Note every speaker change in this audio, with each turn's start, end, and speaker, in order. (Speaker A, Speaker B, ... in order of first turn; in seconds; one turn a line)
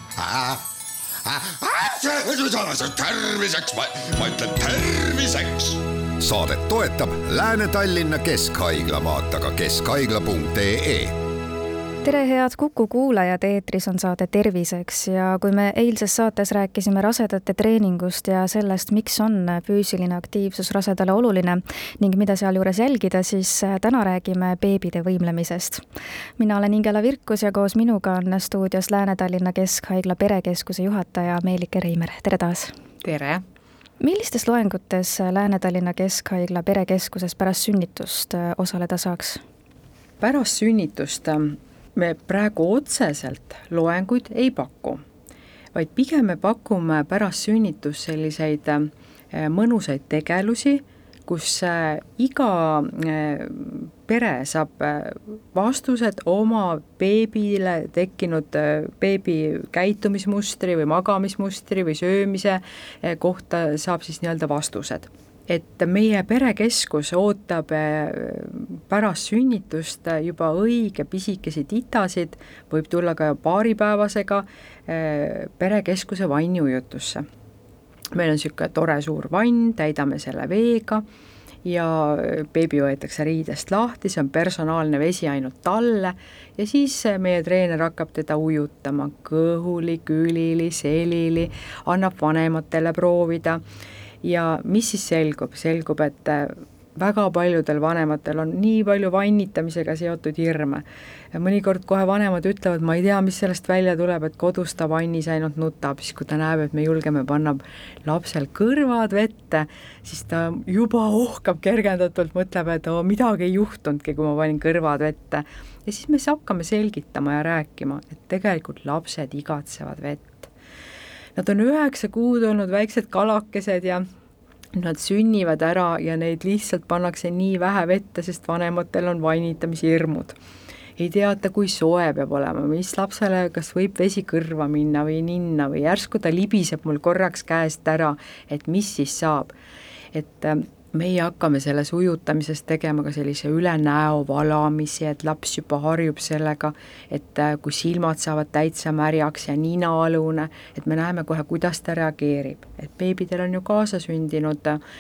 Speaker A: 0.2-0.6
Speaker B: 1.4-5.8
Speaker A: 6.2-11.1
Speaker C: 12.0-25.8
Speaker C: 26.4-32.7
Speaker D: 33.0-33.4
Speaker C: 34.0-39.4
Speaker D: 40.2-45.0
Speaker D: 45.7-77.2
Speaker D: 78.1-81.0
Speaker D: 81.6-93.6
Speaker D: 94.2-120.5
Speaker D: 121.4-124.1
Speaker D: 124.8-130.4
Speaker D: 131.0-139.5
Speaker D: 140.1-154.8